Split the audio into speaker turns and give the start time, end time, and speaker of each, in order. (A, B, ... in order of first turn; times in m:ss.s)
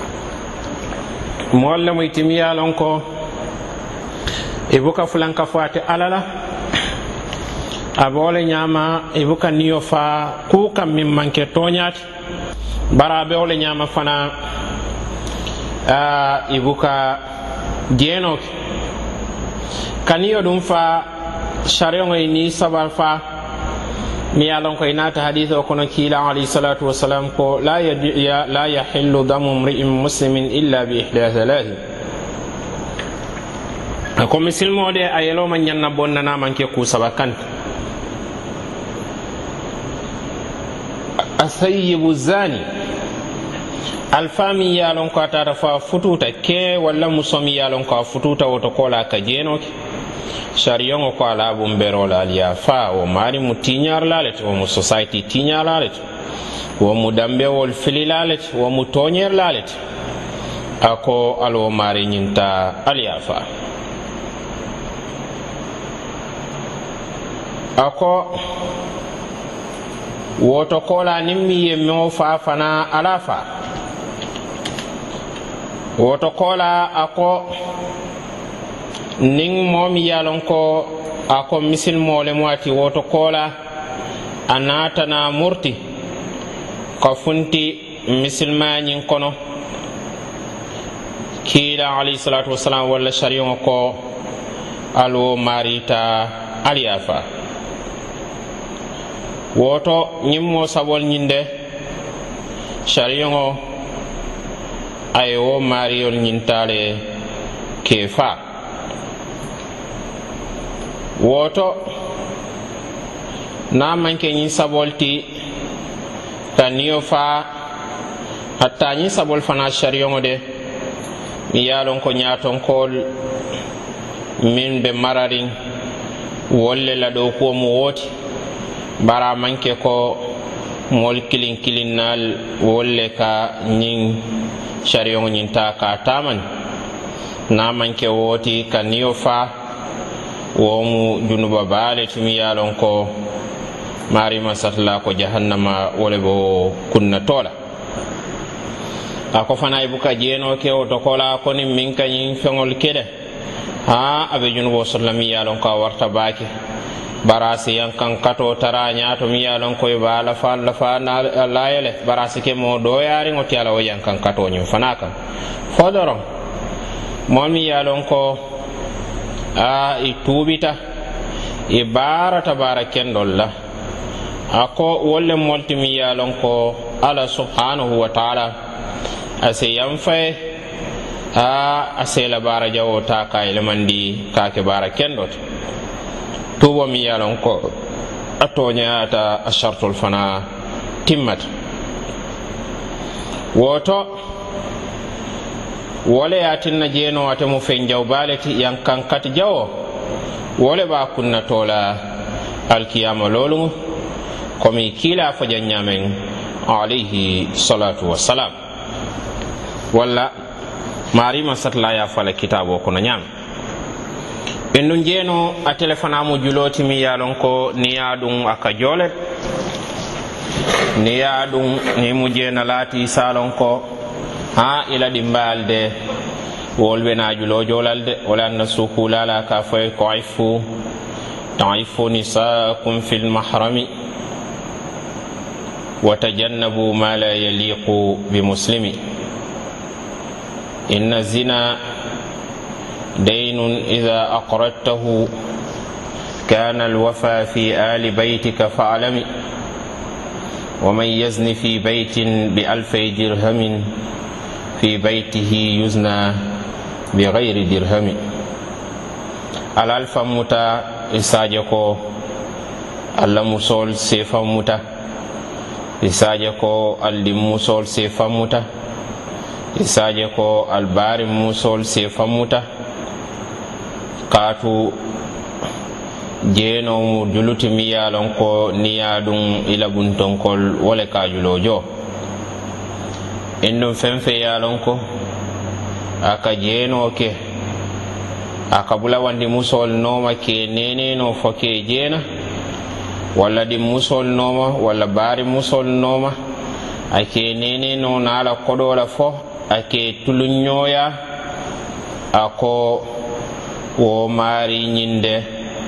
0:01.5-0:03.0 A
0:04.7-0:06.2 A
0:08.0-0:12.0 A
0:12.9-0:14.3 A
0:15.8-0:17.2 A
0:17.9-0:18.4 A
0:20.0-0:21.1 A
0:21.6-0:23.2 A
0:24.3-0:31.8 A
0:34.2-0:37.4 A
0:41.4-0:42.6 A
0:44.1-0:49.7 A
0:50.5-0:56.0 A
0:56.8-0:59.8 A
1:00.8-1:03.4 A
1:07.8-1:08.4 A
1:10.4-1:13.5 A
1:16.0-1:17.5 A
1:19.2-1:23.5 A
1:24.5-1:25.8 A
1:27.0-1:29.3 A
1:31.4-1:34.0 A
1:34.9-1:37.2 A
1:39.5-1:41.5 A
1:42.8-1:43.6 A
1:45.1-1:47.0 A
1:47.8-1:48.4 A
1:51.2-1:51.8 A
1:53.7-1:55.3 A
1:56.5-1:57.5 A
1:58.6-2:00.4 A
2:01.5-2:03.0 A
2:04.4-2:05.5 A
2:06.5-2:08.1 A
2:09.0-2:10.2 A
2:10.9-2:16.4 A
2:17.5-2:19.5 A
2:20.6-2:23.1 A
2:24.1-2:27.5 A
2:29.3-2:33.1 A
2:33.9-2:36.5 A
2:37.2-2:45.1 A
2:45.7-2:46.2 A
2:47.3-2:48.4 A
2:49.6-2:50.8 A
2:51.7-2:53.5 A
2:54.5-2:58.5 A
2:59.4-3:00.4 A
3:01.3-3:05.4 A
3:06.6-3:07.7 A
3:08.4-3:10.4 A
3:11.0-3:11.5 A
3:13.5-3:14.1 A
3:16.0-3:19.7 A
3:20.6-3:22.0 A
3:22.7-3:23.7 A
3:24.6-3:28.5 A
3:29.9-3:30.3 A
3:31.1-3:33.2 A
3:34.7-3:39.1 A
3:41.0-3:43.8 A
3:44.5-3:45.9 A
3:46.8-3:50.6 A
3:51.6-3:53.9 A
3:56.0-3:59.0 A
4:00.9-4:01.8 A
4:03.2-4:05.3 A
4:06.4-4:09.2 A
4:10.8-4:13.9 A
4:14.8-4:16.4 A
4:17.1-4:18.2 A
4:19.8-4:22.0 A
4:23.2-4:24.8 A
4:26.0-4:28.6 A
4:29.7-4:32.6 A
4:34.3-4:35.0 A
4:36.4-4:41.8 A
4:43.6-4:45.0 A
4:46.2-4:47.4 A
4:48.7-4:52.2 A
4:53.3-4:56.3 A
4:57.1-5:01.1 A
5:02.3-5:03.1 A
5:04.0-5:05.5 A